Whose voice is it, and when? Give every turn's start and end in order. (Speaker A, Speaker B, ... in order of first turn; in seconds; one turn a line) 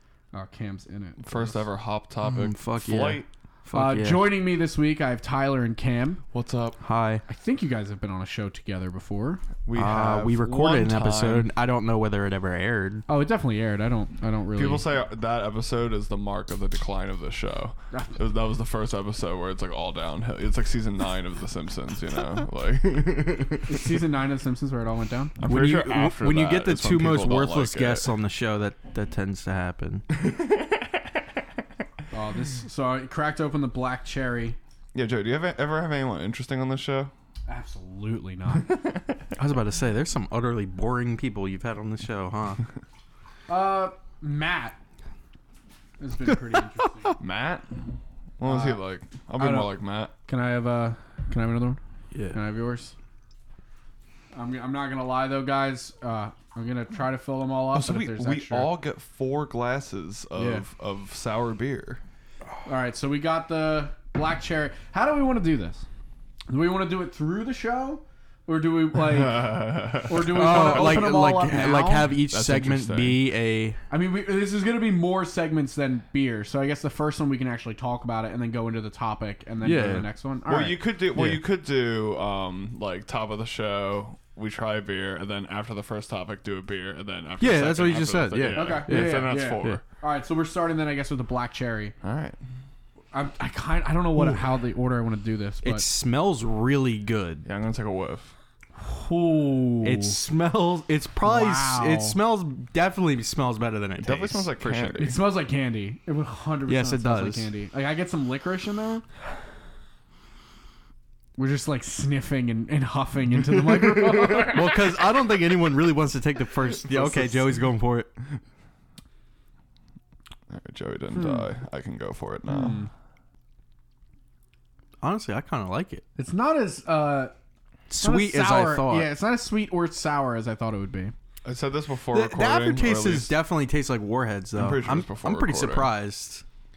Speaker A: 0.3-1.7
Speaker B: 1.2-3.3
Speaker C: 2.2-4.3
Speaker A: 3.7-6.2
Speaker B: 6.3-6.8
Speaker C: 6.8-7.2
Speaker A: 7.3-9.4
Speaker B: 9.7-11.5
Speaker C: 9.8-13.1
Speaker A: 13.1-14.9
Speaker B: 14.6-24.0
Speaker A: 23.7-25.4
Speaker B: 25.4-28.1
Speaker C: 25.4-30.1
Speaker B: 30.1-31.1
Speaker A: 32.1-34.6
Speaker B: 34.9-37.1
Speaker A: 37.5-38.8
Speaker B: 38.6-39.3
Speaker C: 39.4-42.6
Speaker A: 43.5-44.8
Speaker A: 46.0-47.2
Speaker B: 47.2-50.1
Speaker A: 48.5-48.8
Speaker A: 49.4-51.8
Speaker A: 52.3-53.0
Speaker A: 54.3-58.7
Speaker B: 57.7-62.0
Speaker A: 60.4-60.6
Speaker A: 62.6-65.8
Speaker A: 66.5-72.1
Speaker B: 69.0-71.1
Speaker C: 70.2-73.8
Speaker B: 72.1-73.2
Speaker A: 73.9-80.8
Speaker C: 79.6-80.1
Speaker B: 80.5-89.8
Speaker C: 81.1-81.4
Speaker C: 87.4-89.8
Speaker A: 88.5-91.9
Speaker B: 92.0-92.4
Speaker A: 93.1-95.8
Speaker C: 95.6-97.5
Speaker B: 97.5-98.3
Speaker A: 98.8-100.2
Speaker C: 99.8-105.0
Speaker A: 101.2-102.2
Speaker B: 104.0-105.2
Speaker A: 105.0-109.0
Speaker C: 106.7-107.5
Speaker A: 111.4-114.7
Speaker B: 113.6-115.0
Speaker C: 114.5-118.1
Speaker B: 116.8-117.4
Speaker B: 120.5-122.9
Speaker A: 121.1-121.5
Speaker A: 122.5-122.9
Speaker C: 125.0-126.0
Speaker A: 126.2-127.3
Speaker C: 127.9-129.1
Speaker A: 128.0-131.1
Speaker B: 131.4-133.3
Speaker C: 132.1-136.4
Speaker B: 134.6-135.9